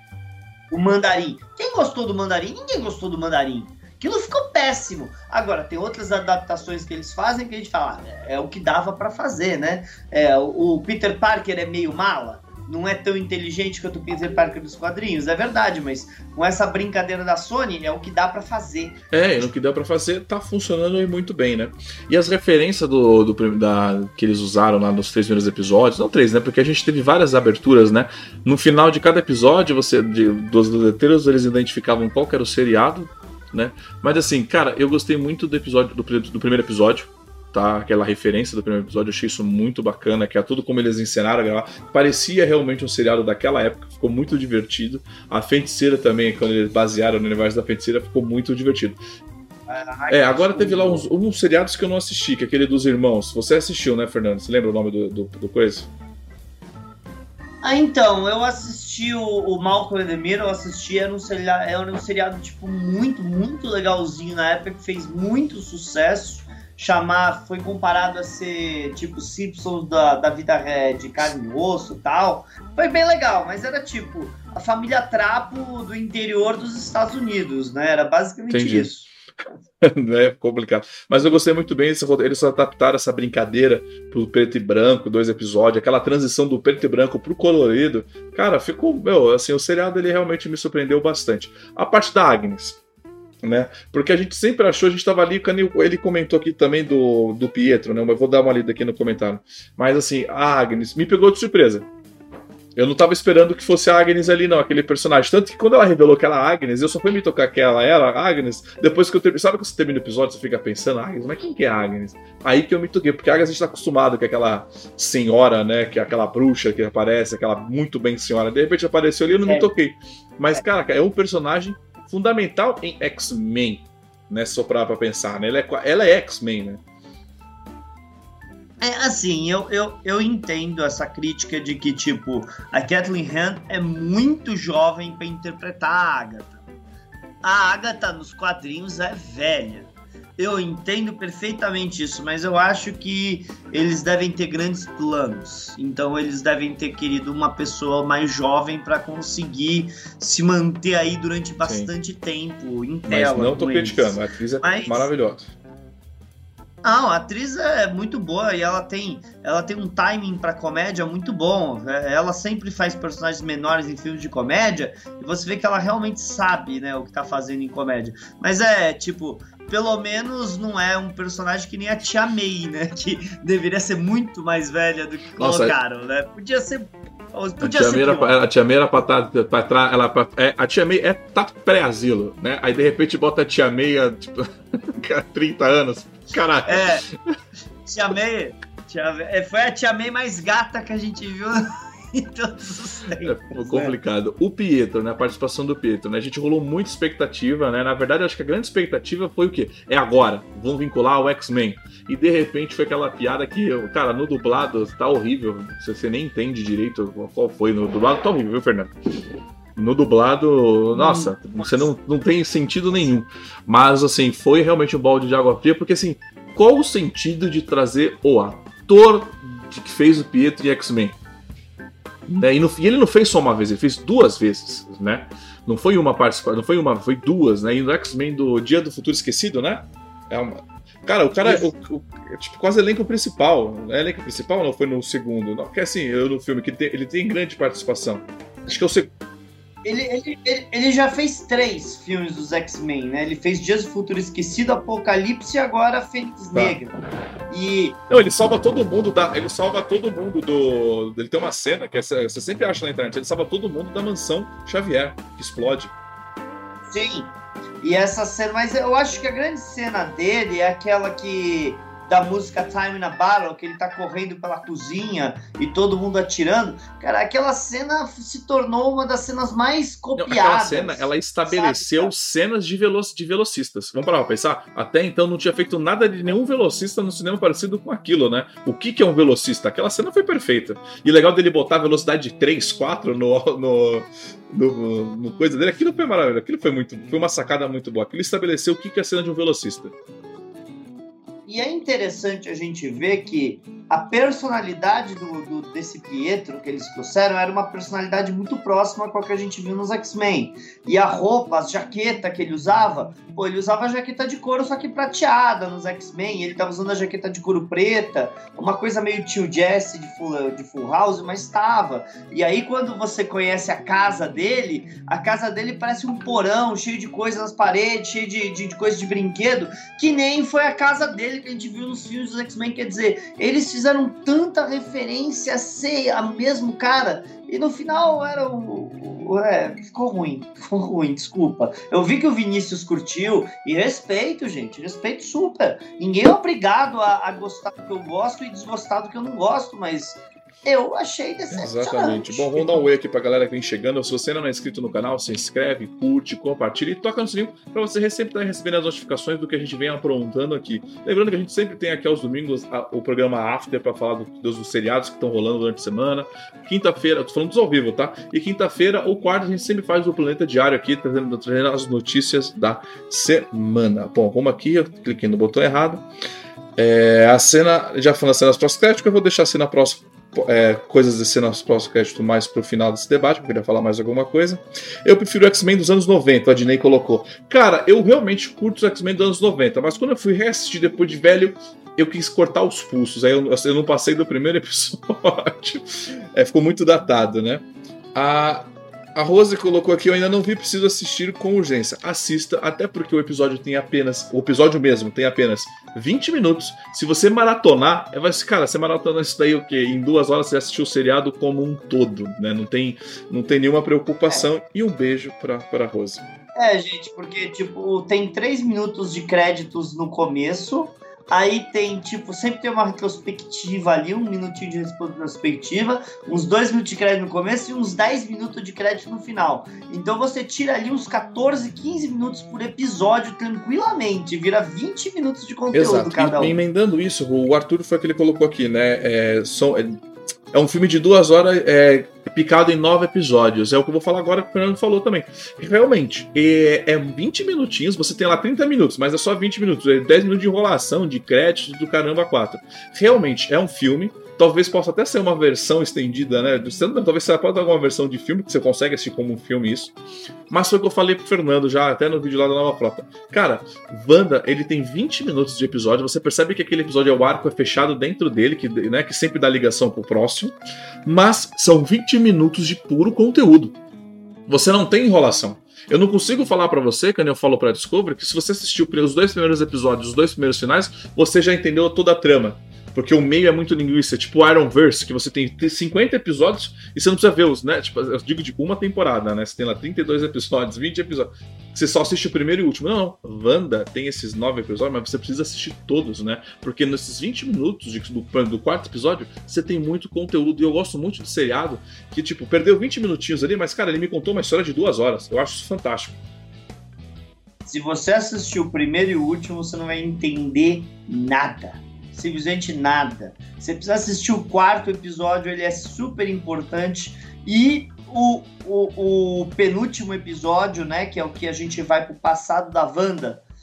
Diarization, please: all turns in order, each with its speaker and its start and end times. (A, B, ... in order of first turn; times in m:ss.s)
0:00.7-0:19.5 A
0:19.1-0:49.0 B
0:49.7-0:51.1 A
0:50.1-0:55.9 B
0:57.6-1:19.1 A
1:18.5-1:18.9 B
1:19.8-1:32.8 B
1:33.4-1:41.9 B
1:42.8-2:06.8 B
1:59.4-1:59.7 A
2:08.8-2:16.6 A
2:17.4-2:35.1 A
2:31.6-2:31.9 B
2:33.1-2:35.5 B
2:36.8-2:58.4 A
2:55.4-2:55.8 B
2:57.6-3:07.1 B
3:06.6-3:07.0 A
3:07.8-3:14.0 A
3:13.2-3:29.0 B
3:29.8-3:41.2 B
3:30.9-3:31.9 A
3:42.3-3:59.1 B
3:51.4-3:51.7 A
3:59.8-4:07.0 A
4:06.5-4:06.8 B
4:07.5-4:08.0 A
4:08.1-4:15.9 B
4:16.9-4:17.3 A
4:17.8-4:32.1 A
4:30.2-4:49.9 B
4:51.5-5:42.9 A
5:41.5-6:06.1 B
6:06.8-6:46.3 B
6:46.6-7:06.6 A
7:05.7-7:10.0 B
7:10.5-7:30.0 B
7:30.5-7:43.8 B
7:44.5-8:16.2 B
8:17.7-8:33.4 A